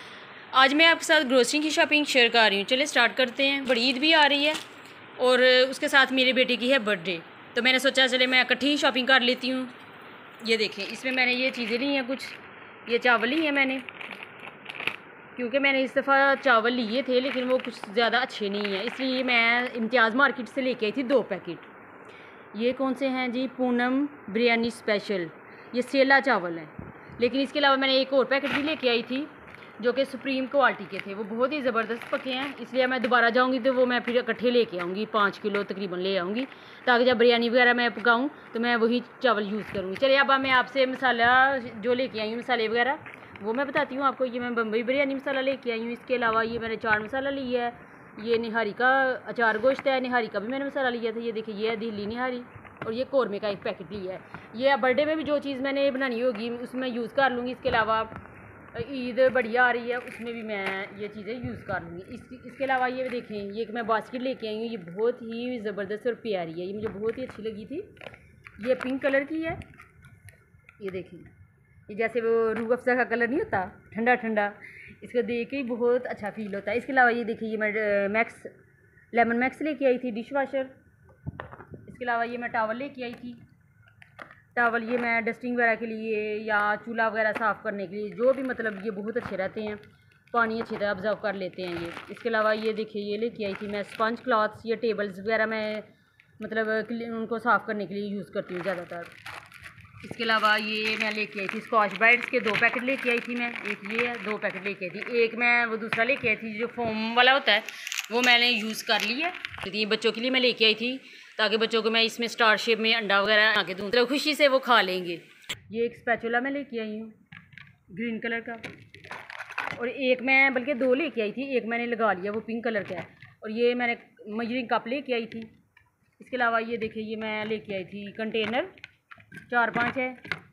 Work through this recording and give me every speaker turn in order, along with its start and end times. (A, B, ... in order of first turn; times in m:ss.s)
0:00.5-0:04.6 A
0:05.2-0:09.7 A
0:10.4-0:13.9 A
0:15.4-0:21.7 A
0:22.5-0:58.2 A
0:58.7-1:07.9 A
1:08.6-1:09.6 A
1:10.8-1:11.3 A
1:11.9-1:18.5 A
1:19.1-1:20.7 A
1:21.8-1:23.4 A
1:24.6-1:35.9 A
1:36.4-1:39.1 A
1:40.0-1:57.2 A
1:57.9-1:58.7 A
1:59.7-2:05.5 A
2:06.2-2:08.7 A
2:09.5-2:10.3 A